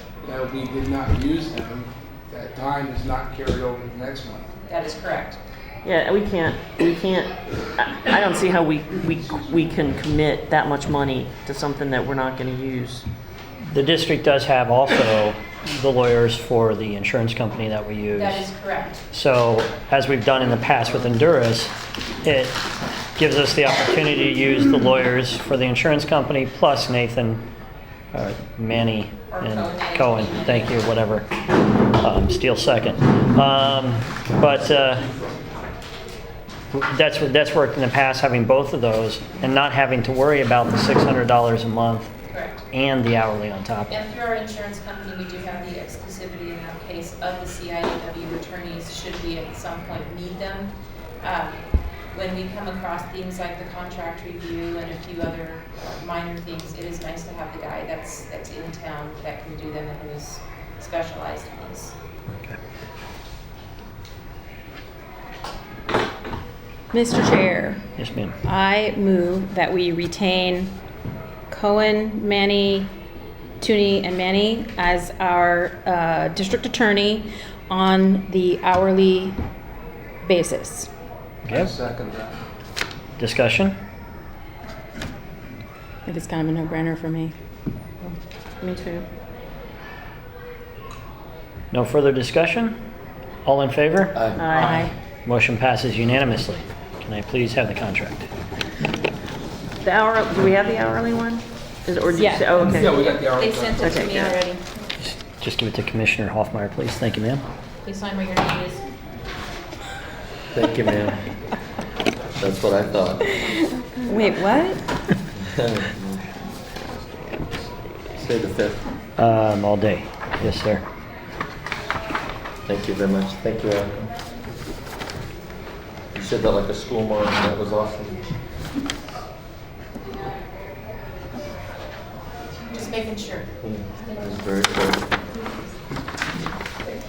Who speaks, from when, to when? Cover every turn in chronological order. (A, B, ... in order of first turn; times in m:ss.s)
0:00.2-0:04.5 A
0:04.7-0:05.4 B
0:05.8-0:13.0 C
0:09.3-0:09.6 A
0:13.7-0:18.5 D
0:18.2-0:19.0 B
0:19.1-0:21.7 D
0:22.2-0:22.6 D
0:23.2-0:27.4 D
0:28.1-0:31.3 D
0:29.3-0:30.8 B
0:32.0-0:35.1 D
0:36.7-0:42.1 D
0:42.3-0:42.6 B
0:42.7-0:43.9 D
0:43.9-1:01.9 B
1:06.9-1:07.8 E
1:08.0-1:08.4 D
1:08.4-1:10.7 E
1:11.5-1:12.9 E
1:13.6-1:19.4 E
1:20.2-1:20.9 E
1:21.4-1:21.7 D
1:21.5-1:22.4 A
1:23.2-1:23.7 D
1:26.0-1:27.3 E
1:28.6-1:29.0 C
1:31.7-1:32.7 D
1:33.4-1:34.2 D
1:34.1-1:34.5 F
1:34.4-1:34.8 C
1:34.5-1:34.8 A
1:34.5-1:34.9 E
1:35.2-1:38.3 D
1:39.8-1:43.0 C
1:42.2-1:42.5 E
1:42.7-1:44.1 A
1:43.2-1:44.6 B
1:43.8-1:44.4 C
1:45.0-1:47.4 D
1:47.8-1:48.8 B
1:50.5-1:51.2 F
1:52.4-1:53.4 F
1:54.0-1:54.8 E
1:55.3-1:57.4 F
1:58.0-1:58.8 F
1:59.2-2:00.8 D
2:02.6-2:04.1 F
2:06.1-2:08.2 F
2:12.7-2:13.5 B
2:13.6-2:15.1 F